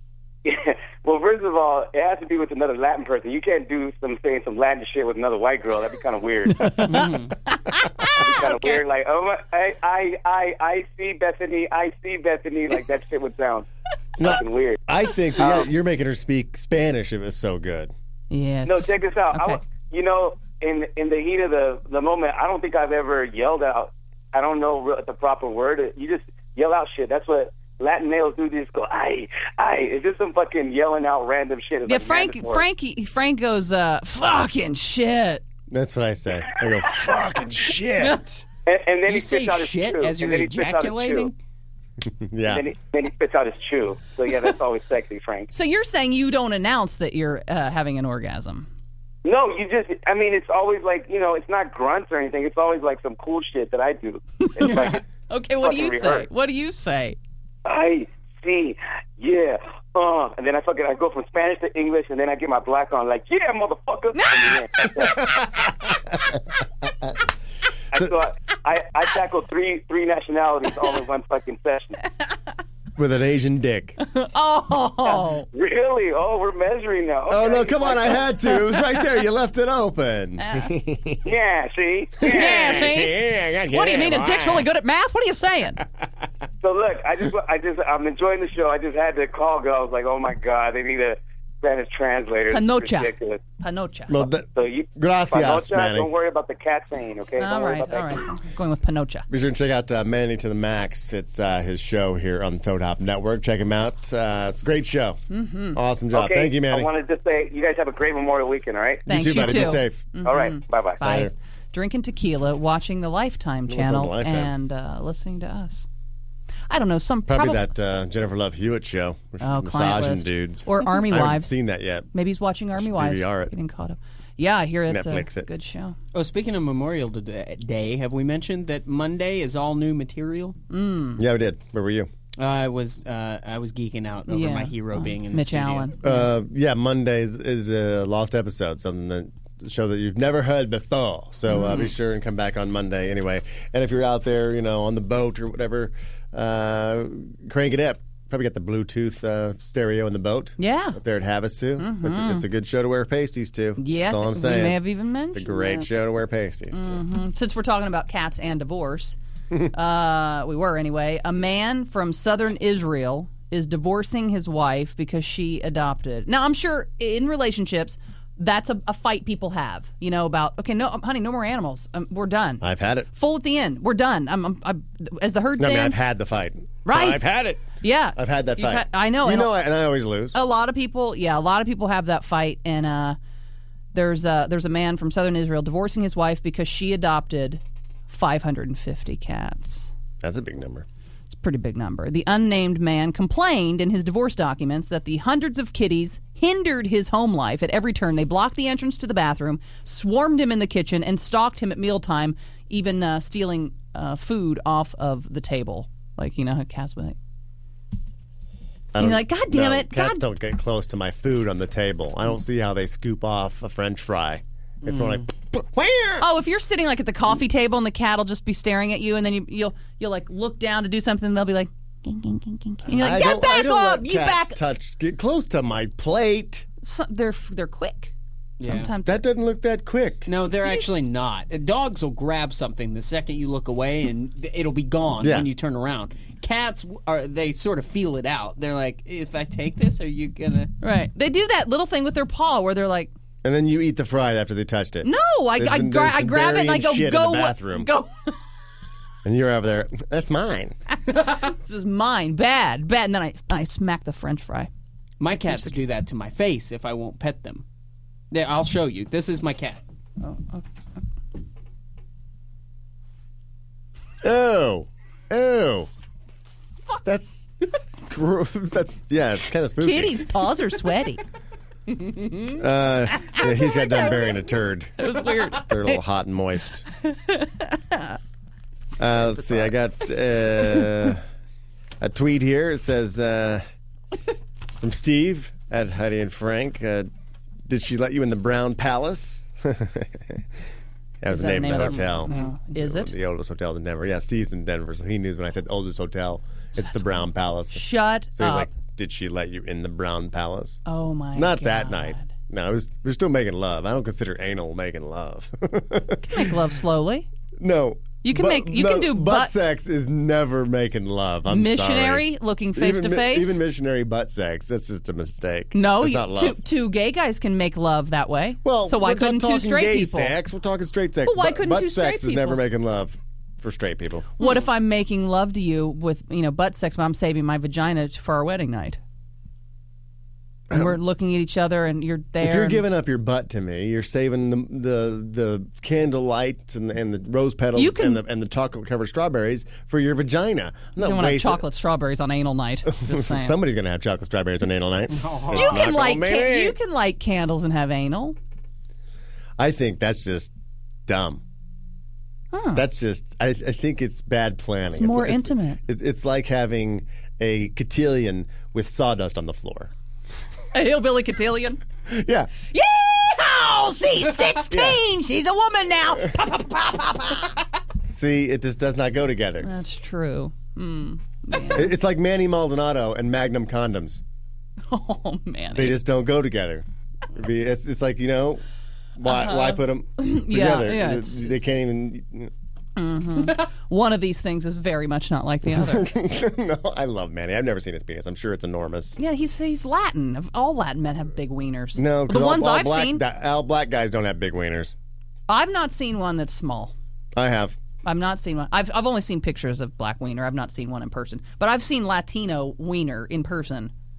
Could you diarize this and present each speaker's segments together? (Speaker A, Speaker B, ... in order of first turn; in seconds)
Speaker A: 0.4-6.8, 8.1-13.7, 14.2-14.8, 15.4-15.7, 18.6-32.6, 38.6-41.3, 42.5-45.5, 49.2-55.0, 55.6-56.3, 57.6-65.3, 67.9-72.0, 75.5-78.3, 81.2-82.9, 86.6-93.4, 94.5-98.2, 106.1-109.1, 110.2-111.0
Speaker B: 6.6-8.8, 18.3-19.6, 31.9-35.4, 38.0-38.4, 45.5-48.7, 54.4-57.2, 64.1-64.8, 74.0-75.5, 80.4-80.7, 82.2-85.8, 92.5-94.2, 97.4-99.2, 105.3-105.8, 109.1-115.9, 116.7-117.7, 119.4-121.5, 122.1-126.0, 130.7-131.2, 134.3-136.3, 141.5-141.9, 150.6-151.0, 151.8-152.4, 153.8-155.9, 156.7-159.2, 159.7-176.0, 176.8-179.5, 180.3-183.2, 183.9-189.9, 191.3-207.2, 209.0-210.2, 216.2-224.6, 226.8-229.2, 230.6-230.9, 240.8-243.1, 245.0-248.3, 251.1-254.7, 255.4-255.8, 260.2-260.6, 269.8-271.2, 273.1-276.0, 277.0-278.2, 291.3-293.1, 296.7-297.0, 297.7-298.7, 300.9-302.3, 306.2-307.3, 308.2-309.5, 311.5-313.6, 315.7-320.4, 321.2-322.6, 324.4-329.0, 330.7-332.9, 337.7-338.2, 341.0-343.6, 345.5-348.4, 352.5-352.8, 354.9-355.8, 360.7-361.8, 362.7-367.5, 369.6-371.9, 374.9-376.0, 379.2-381.7, 382.9-386.1, 389.2-393.2, 395.5-396.9, 398.0-403.9
Speaker C: 6.8-7.3, 39.1-41.4, 126.1-130.6, 132.4-135.9, 228.6-228.9, 230.2-240.7, 255.2-257.6, 258.3-259.8, 292.2-292.5, 345.1-345.9
Speaker D: 14.2-17.9, 35.7-38.4, 42.0-42.6, 65.0-66.4, 73.0-74.0, 77.3-81.3, 82.2-84.7, 94.1-96.1, 99.3-105.2, 105.7-106.9, 109.0-110.0, 111.0-111.3, 113.7-114.5, 117.3-122.1, 122.7-123.5, 124.9-125.5, 131.2-132.1, 136.0-154.8, 155.3-157.0, 172.6-173.1, 175.6-180.3, 190.2-190.8, 208.9-216.3, 222.8-226.6, 229.0-230.3, 235.2-235.5, 243.4-247.9, 249.2-250.8, 264.2-265.9, 267.0-270.3, 272.5-276.8, 279.0-281.2, 282.0-283.6, 284.8-287.1, 287.7-290.4, 291.2-300.8, 301.3-306.6, 307.6-316.6, 318.6-324.3, 332.4-341.6, 342.9-346.8, 349.6-350.5, 351.1-351.4, 352.7-359.9, 362.1-362.5, 364.7-365.0, 368.0-369.7, 371.7-374.2, 375.7-378.6, 379.2-382.5, 385.6-389.2, 391.9-394.9, 397.4-397.8